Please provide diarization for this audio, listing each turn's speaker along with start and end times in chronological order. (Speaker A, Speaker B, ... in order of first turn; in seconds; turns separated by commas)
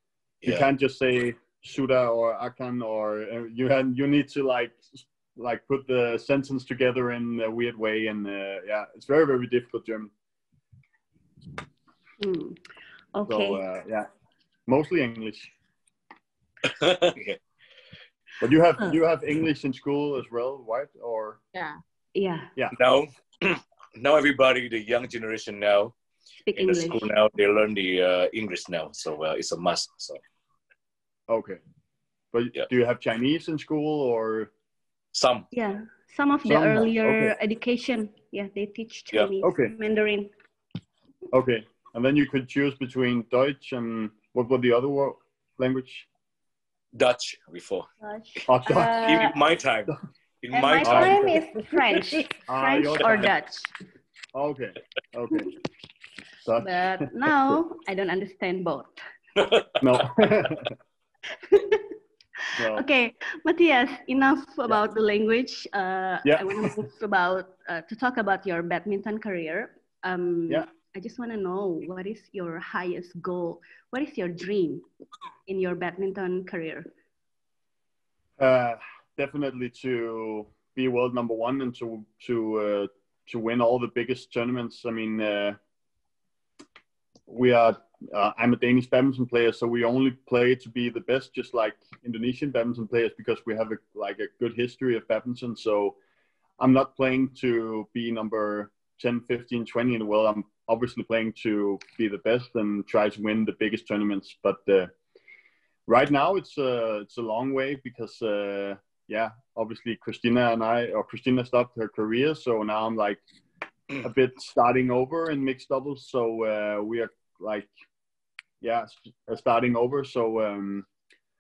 Speaker A: 0.4-10.1, Speaker B: 12.2-12.6, Speaker B: 13.1-13.6, Speaker A: 13.3-14.1, Speaker A: 14.7-15.5, Speaker C: 16.6-17.4, Speaker A: 18.4-21.4, Speaker B: 22.1-22.5, Speaker C: 22.7-25.9, Speaker B: 26.4-27.1, Speaker C: 26.6-30.2, Speaker A: 31.3-31.6, Speaker A: 32.3-34.5, Speaker C: 35.1-35.5, Speaker B: 35.5-40.3, Speaker A: 36.4-37.3, Speaker A: 39.4-39.7, Speaker A: 41.3-46.1, Speaker C: 46.9-47.9, Speaker B: 48.0-49.3, Speaker A: 48.5-49.3, Speaker C: 49.0-51.4, Speaker B: 50.5-53.7, Speaker A: 50.8-51.5, Speaker A: 52.0-53.3, Speaker A: 54.3-55.5, Speaker A: 56.4-57.0, Speaker B: 56.6-59.0, Speaker C: 59.4-59.7, Speaker A: 59.8-60.7, Speaker B: 61.5-61.9, Speaker B: 62.5-74.8, Speaker A: 62.6-62.8, Speaker A: 66.2-66.7, Speaker B: 75.5-76.9, Speaker A: 78.4-85.6, Speaker A: 87.3-96.0, Speaker A: 96.6-104.9, Speaker A: 105.9-113.2, Speaker A: 114.0-117.7, Speaker A: 118.6-120.8